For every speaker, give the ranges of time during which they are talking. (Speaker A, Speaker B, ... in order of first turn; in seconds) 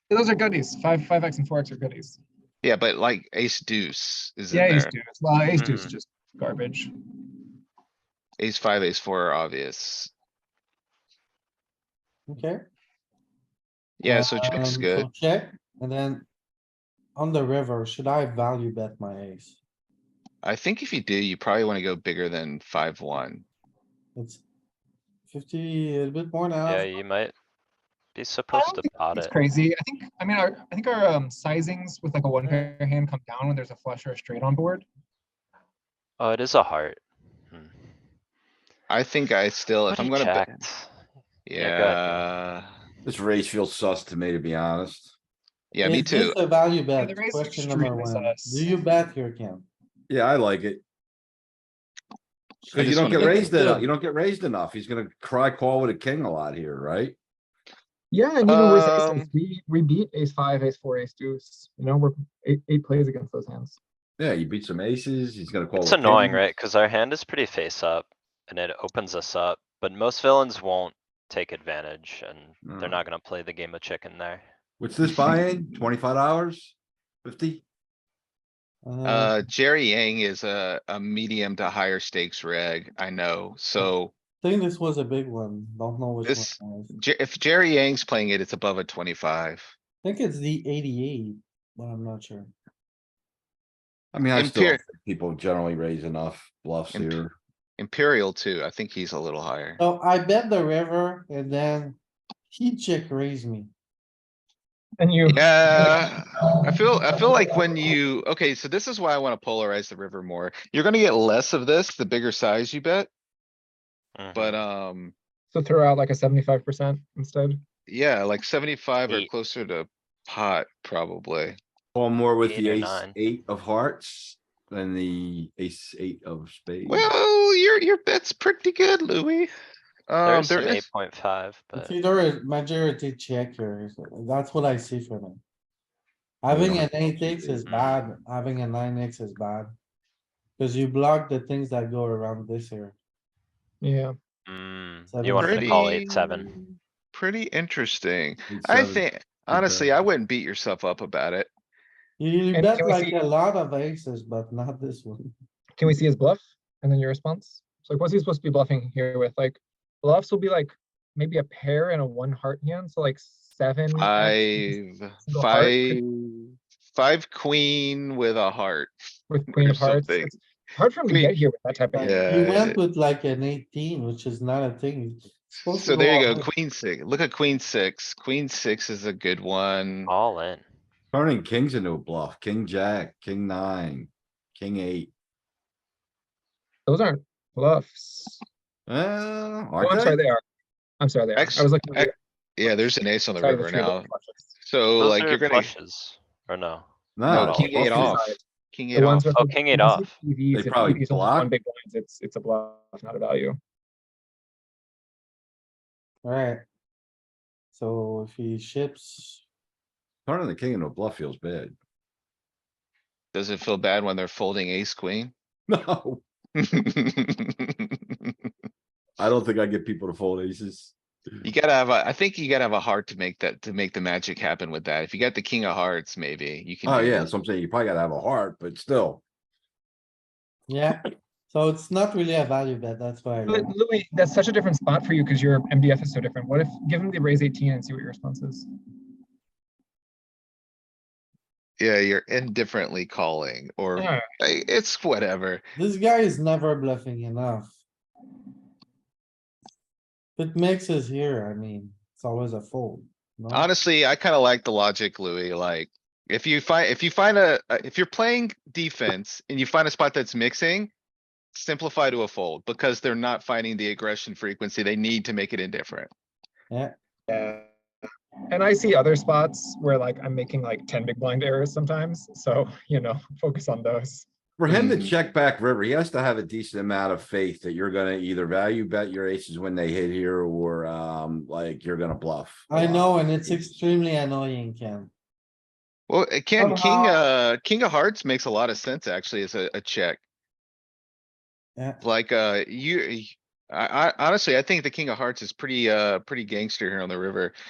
Speaker A: 0.1-2.2, 4.5-6.9, 28.5-34.9, 47.0-48.7, 53.2-53.7, 58.1-63.8, 105.0-107.5, 115.5-117.6, 143.8-144.1, 152.5-153.2, 155.8-166.0, 169.3-172.3, 186.9-188.4, 189.8-190.4, 191.0-194.5, 197.3-198.4, 198.9-203.6, 233.5-238.7, 244.0-244.2, 267.3-267.7, 268.5-274.3
Speaker B: 2.6-4.9, 8.4-10.1, 14.0-15.1, 20.4-23.5, 38.9-40.6, 41.5-42.7, 45.7-46.4, 52.7-53.3, 58.4-59.3, 79.0-84.1, 86.2-89.7, 94.3-94.8, 96.9-97.2, 97.8-99.8, 105.2-113.1, 114.3-115.2, 117.9-121.6, 126.9-129.5, 130.1-130.9, 145.4-151.5, 163.9-168.9, 169.5-170.4, 171.9-172.8, 175.7-180.1, 191.4-194.1, 194.6-195.7, 197.3-199.3, 213.3-215.3, 216.6-218.3, 221.4-227.3, 241.8-245.6, 253.5-260.9, 261.5-266.1, 274.7-275.1, 286.1-290.2, 292.0-297.5
Speaker C: 5.6-6.0, 26.7-27.4, 28.1-29.4, 36.2-37.7, 39.9-40.9, 41.6-42.3, 65.8-74.4, 114.2-114.6, 122.4-123.2, 130.2-131.9, 137.7-138.0, 144.5-146.5, 180.1-180.7, 195.0-196.9, 199.3-200.1
Speaker D: 12.3-12.6, 14.0-16.3, 17.2-19.6, 24.1-24.4, 25.3-26.9, 45.8-49.7, 52.6-53.9, 78.8-79.4, 83.8-86.9, 90.0-92.5, 99.8-102.0, 102.5-103.7, 131.8-135.4, 136.4-139.7, 140.6-143.0, 145.1-145.8, 152.2-155.2, 172.1-176.5, 206.2-206.6, 207.7-209.4, 230.7-233.7, 245.8-247.8, 250.4-253.7, 282.7-285.1, 286.6-287.3
Speaker E: 43.0-45.1, 50.1-50.8, 52.7-57.2, 64.2-66.4, 72.6-73.0, 74.8-77.6, 94.1-97.4, 122.0-127.1, 136.5-137.6, 148.5-149.9, 181.1-185.1, 188.9-190.2, 197.2-198.2, 200.5-201.5, 210.3-211.8, 215.7-216.2, 219.2-221.4, 226.8-229.2, 274.6-283.8